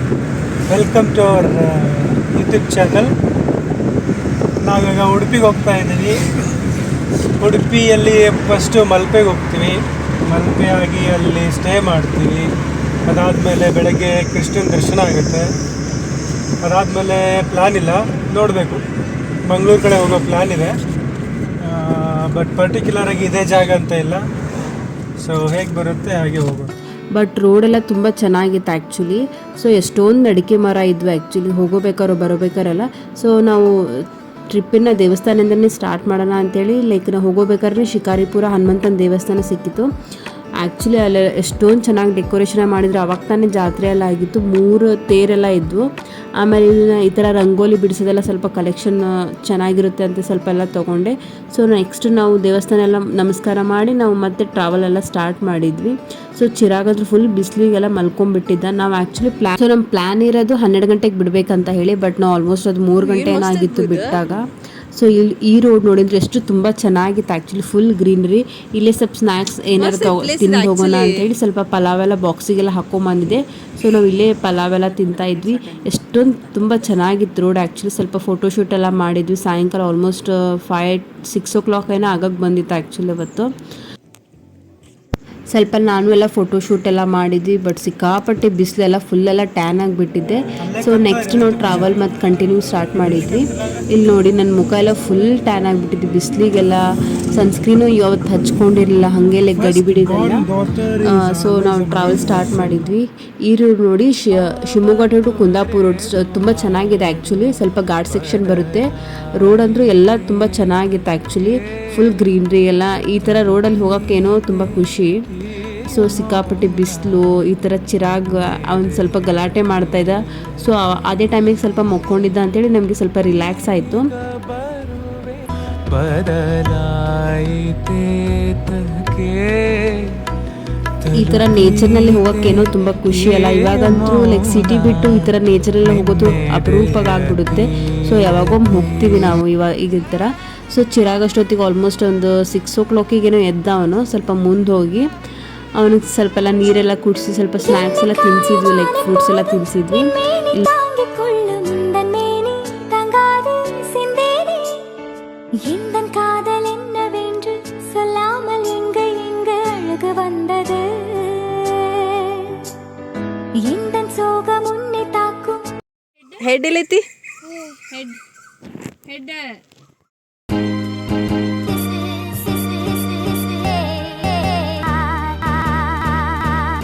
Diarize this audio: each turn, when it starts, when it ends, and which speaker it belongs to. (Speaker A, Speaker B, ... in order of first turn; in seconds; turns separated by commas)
Speaker A: 0.7-3.1, Speaker A: 4.6-6.2, Speaker A: 7.4-12.5, Speaker A: 13.1-15.5, Speaker A: 16.6-18.8, Speaker A: 19.4-20.8, Speaker A: 21.6-24.2, Speaker A: 25.2-26.7, Speaker B: 27.1-39.9, Speaker B: 40.6-45.9, Speaker B: 46.4-83.5, Speaker C: 63.0-64.2, Speaker C: 69.8-71.3, Speaker B: 85.5-96.8, Speaker A: 90.6-92.0, Speaker A: 92.9-93.4, Speaker B: 97.3-100.4, Speaker A: 99.6-102.6, Speaker B: 101.0-108.9, Speaker B: 109.4-115.2, Speaker B: 115.9-124.1, Speaker C: 125.9-129.9, Speaker B: 131.1-145.1, Speaker B: 145.8-150.7, Speaker D: 147.6-154.9, Speaker D: 155.6-162.7, Speaker D: 163.6-165.7, Speaker C: 166.4-167.1, Speaker D: 173.7-174.3